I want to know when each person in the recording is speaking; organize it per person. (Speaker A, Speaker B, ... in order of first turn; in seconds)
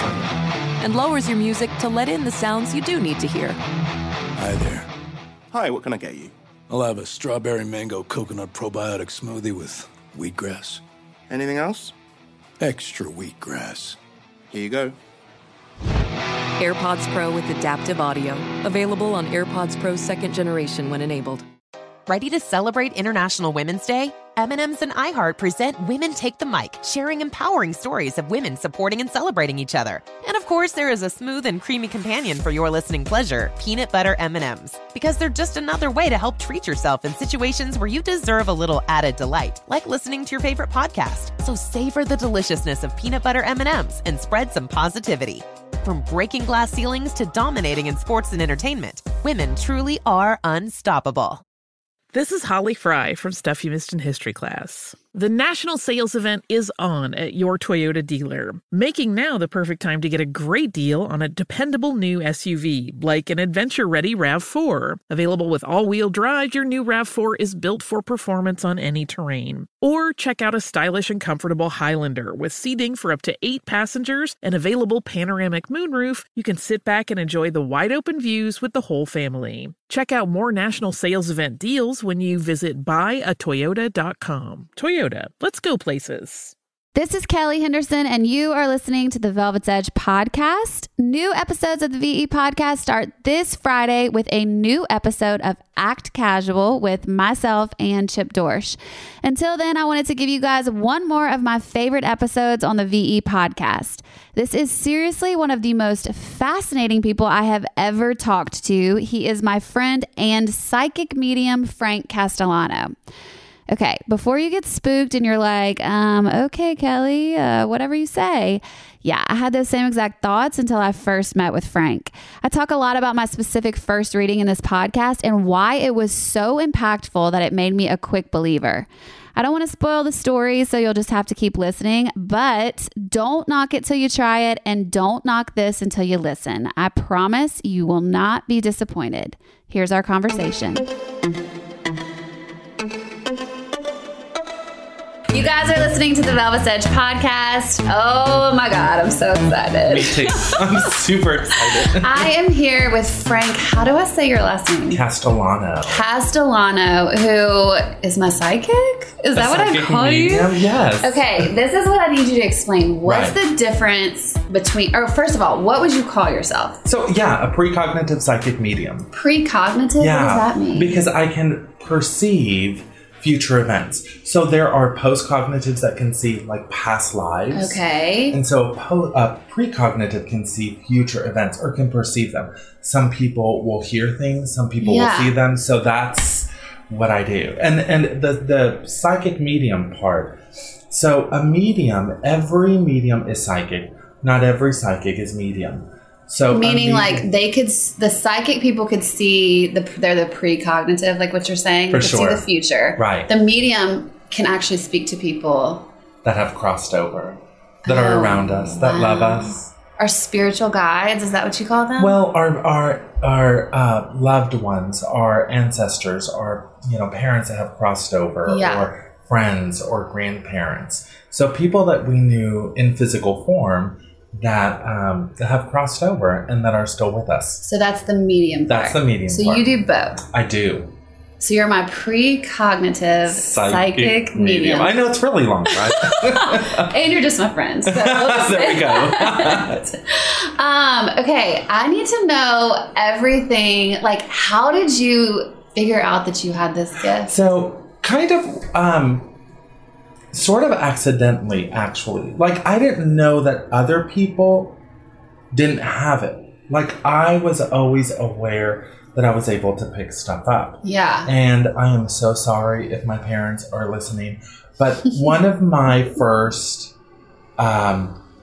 Speaker A: 0.8-3.6, 16.6-21.5
Speaker B: 4.4-4.9, 6.7-10.8, 12.6-14.0
Speaker C: 5.5-6.3, 11.3-11.9, 14.5-15.0
Speaker D: 22.1-51.4
Speaker E: 52.1-86.5
Speaker F: 86.9-113.0, 113.7-140.8, 145.3-150.5, 152.0-155.0, 155.8-160.5, 161.0-166.8, 169.1-171.0, 177.5-178.4, 184.8-185.3, 196.5-205.8, 207.8-212.2, 218.4-218.9, 227.6-230.2, 231.4-234.9, 235.8-247.3, 260.8-261.3
Speaker G: 149.9-152.3, 154.9-156.0, 159.3-161.5, 163.0-163.4, 166.8-169.1, 170.0-190.4, 190.9-197.3, 201.9-203.3, 206.2-209.7, 212.0-227.6, 228.7-230.9, 233.2-236.9, 237.9-239.8, 247.2-249.3, 250.3-254.8, 255.5-266.9, 267.6-268.2